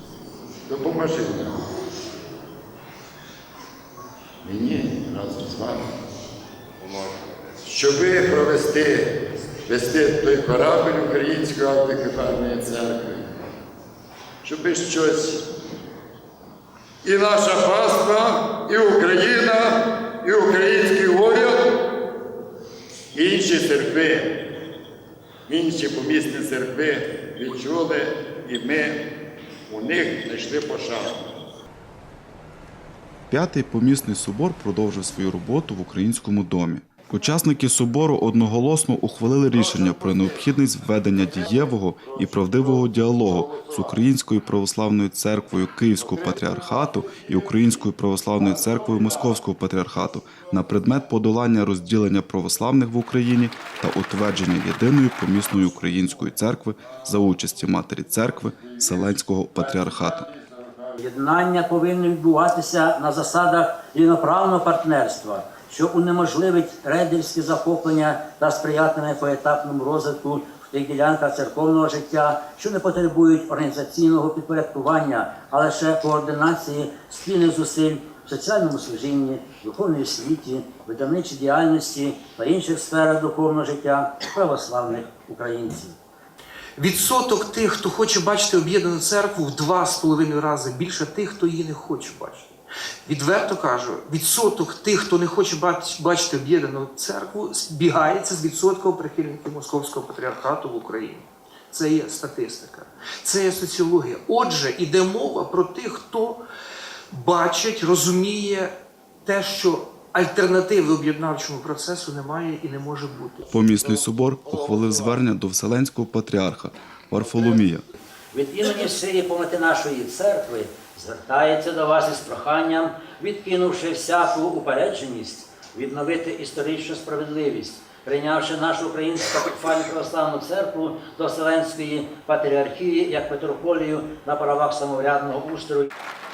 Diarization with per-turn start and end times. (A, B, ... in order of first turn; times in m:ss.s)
0:00.7-0:01.6 A
0:04.4-0:05.9 A
0:07.6-0:13.4 A
0:14.4-0:15.4 A
0:17.0-0:21.9 A
0:23.1-0:24.4 A
0:25.5-0:29.1 A
0:29.7-0:31.2 A
0:33.3-1:00.3 B
0:42.1-0:43.7 A
0:59.6-1:01.0 A
1:01.0-1:25.9 C
1:26.8-1:32.5 D
1:33.0-1:46.4 D
1:47.1-1:48.7 D
1:49.2-1:53.5 D
1:53.5-1:57.8 B
1:58.3-2:15.9 C